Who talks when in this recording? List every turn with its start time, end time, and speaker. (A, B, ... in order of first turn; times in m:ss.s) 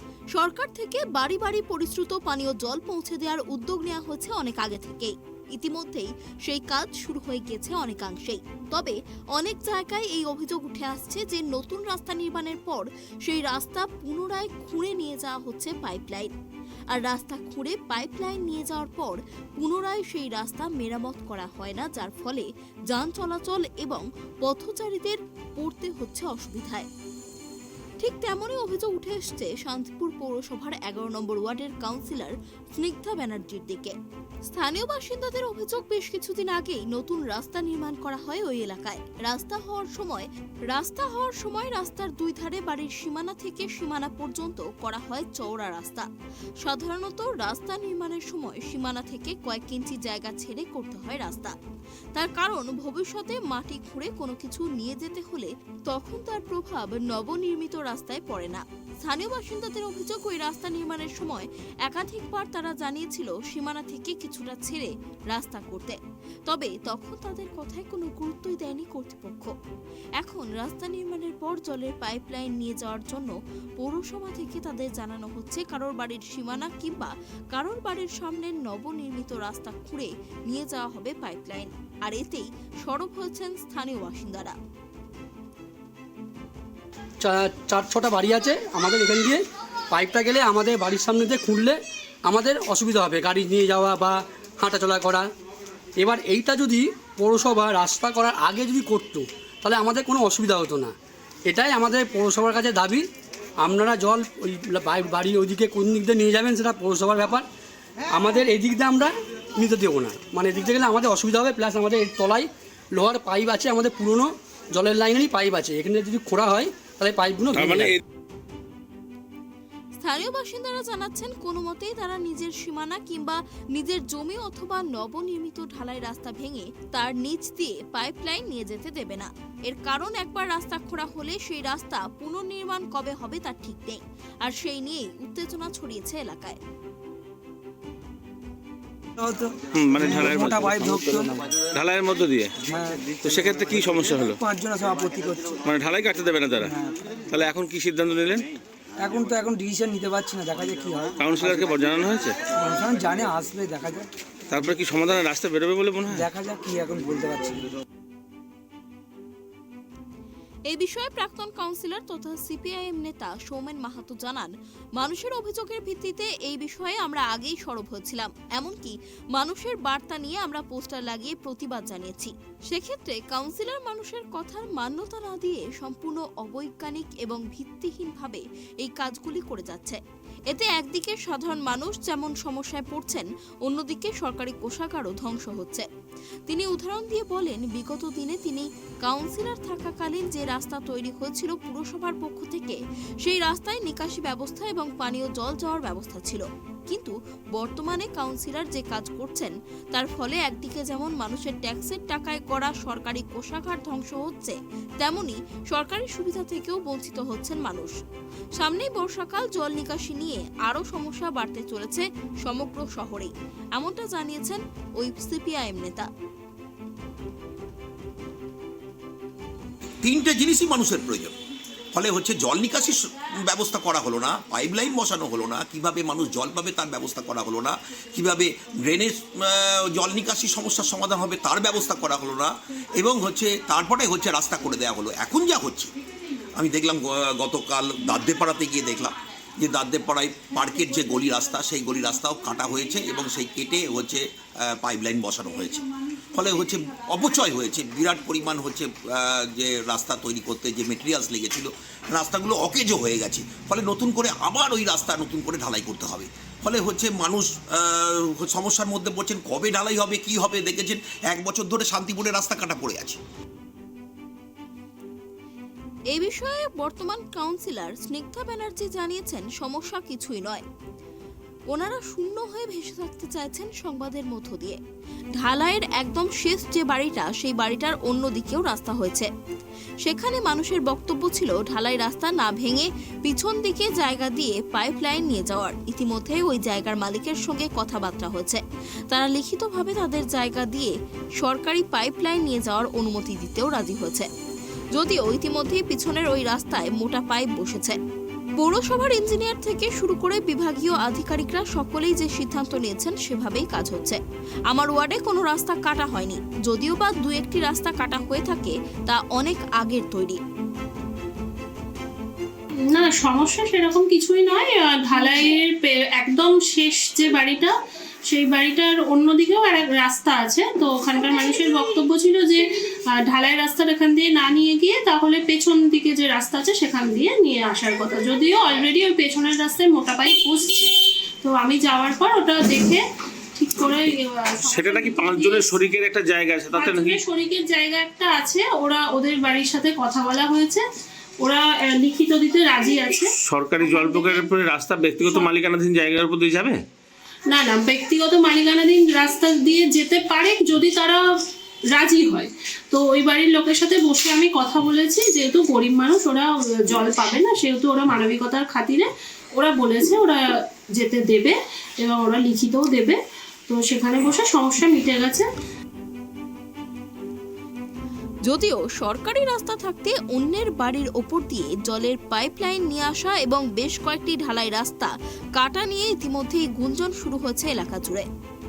0:00.4-0:16.3 A
0:16.9-0:26.9 A
0:28.0-0:34.0 A
0:34.5-0:46.1 A
0:46.6-0:51.6 A
0:52.2-1:06.0 A
1:06.5-1:09.5 A
1:10.2-1:24.6 A
1:27.2-1:35.3 B
1:36.0-1:41.0 B
1:41.5-1:43.1 B
1:43.6-1:47.5 B
1:48.1-1:58.0 B
1:57.6-1:58.0 C
2:00.0-2:16.6 A
2:19.2-2:21.5 D
2:19.7-2:22.6 C
2:22.7-2:23.2 D
2:23.1-2:24.4 C
2:24.4-2:25.6 D
2:25.6-2:26.7 C
2:26.6-2:27.0 D
2:27.3-2:28.4 C
2:29.0-2:31.6 D
2:31.2-2:32.4 C
2:32.6-2:34.1 D
2:34.5-2:36.3 C
2:36.1-2:37.6 D
2:40.7-3:05.9 A
3:06.5-3:27.9 A
3:28.6-3:36.1 A
3:40.0-3:41.3 E
3:41.9-3:55.9 E
3:56.6-4:05.8 E
4:06.3-4:23.2 E
4:26.1-4:30.6 A
4:31.7-4:34.8 A
4:35.4-4:39.3 A
4:40.0-4:54.3 A
4:55.0-4:58.0 A
4:58.6-5:04.2 A
5:04.7-5:10.4 A
5:12.9-5:17.8 F
5:18.3-5:22.6 F
5:23.2-5:33.0 F
5:33.6-5:35.8 F
5:34.6-5:37.2 C
5:36.7-5:40.8 F
5:41.4-5:43.3 F
5:43.2-5:46.8 C
5:43.8-5:44.4 F
5:47.5-5:51.2 F
5:51.9-6:00.4 F
6:01.0-6:05.5 F
6:08.5-6:18.3 A